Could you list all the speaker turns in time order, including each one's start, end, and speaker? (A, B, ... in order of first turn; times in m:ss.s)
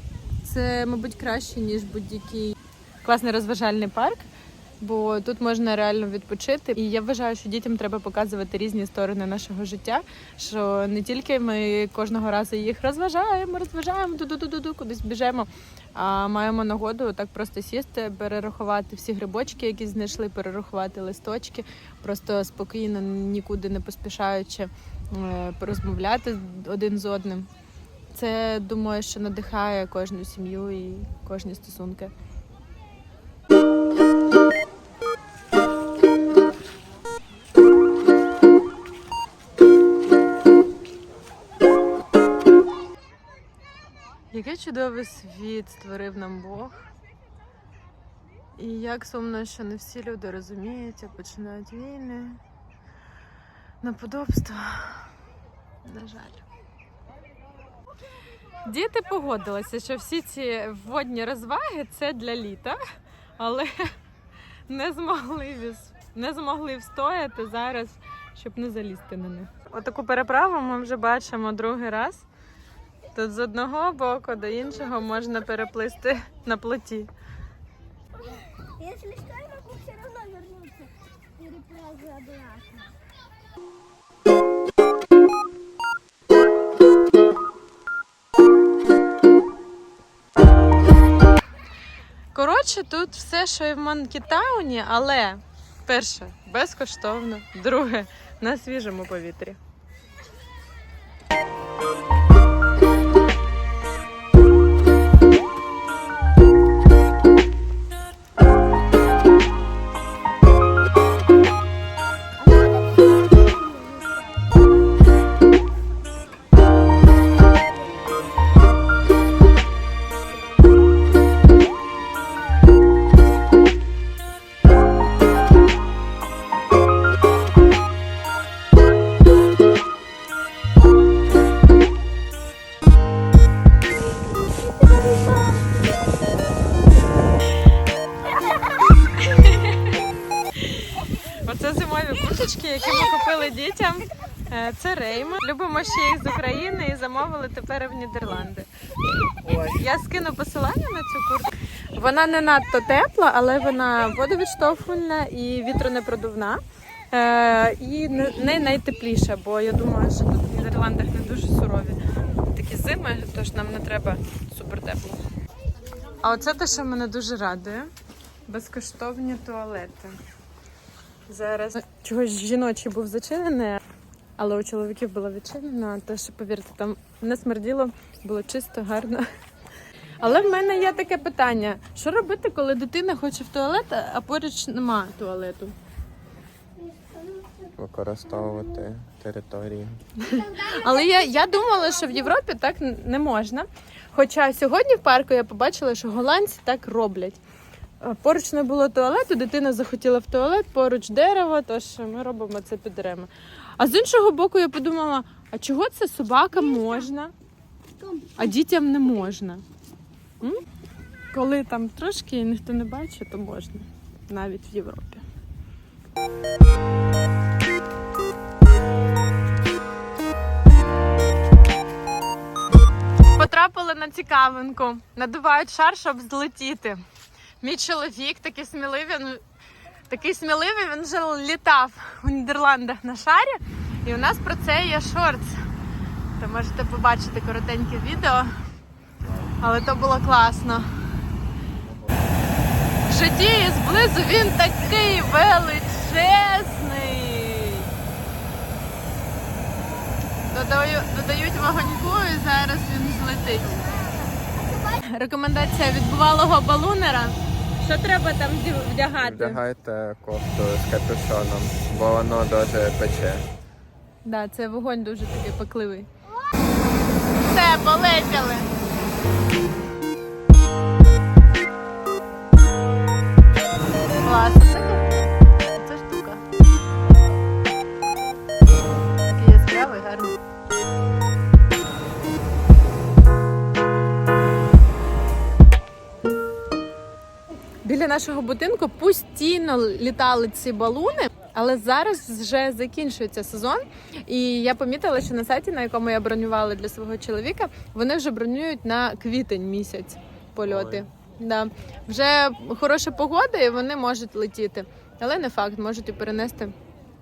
0:00.4-0:04.3 A
0:04.8-0:27.5 A
0:28.1-0:32.1 A
0:44.3-0:46.8 A
0:48.6-0:52.4 A
0:53.8-0:55.1 A
0:55.8-0:56.4 A
0:58.6-1:02.8 A
1:03.4-1:03.8 A
1:04.7-1:12.2 A
1:13.1-1:17.1 A
1:18.6-1:22.9 B
1:32.3-1:39.6 A
1:52.4-1:54.3 B
2:19.0-2:28.7 A
2:29.5-2:45.2 A
2:46.2-2:47.9 A
2:48.5-2:50.2 A
2:51.3-2:53.8 A
2:54.4-2:59.2 A
3:00.2-3:05.7 A
3:07.8-3:10.0 C
3:10.2-3:17.4 A
3:18.0-3:27.3 A
3:28.0-3:28.3 B
3:28.4-3:29.6 A
3:31.3-3:35.2 A
3:43.3-3:47.0 A
3:47.6-3:49.4 A
3:50.1-3:55.6 A
3:56.4-3:58.5 A
3:59.6-4:00.9 A
4:03.0-4:07.9 A
4:10.5-4:14.0 A
4:14.4-4:14.8 B
4:14.8-4:19.6 A
4:19.2-4:23.5 C
4:24.2-4:26.1 A
4:27.4-4:28.7 A
4:34.2-4:36.4 A
4:39.2-4:40.4 A
4:47.8-5:06.7 A
5:00.6-5:01.0 C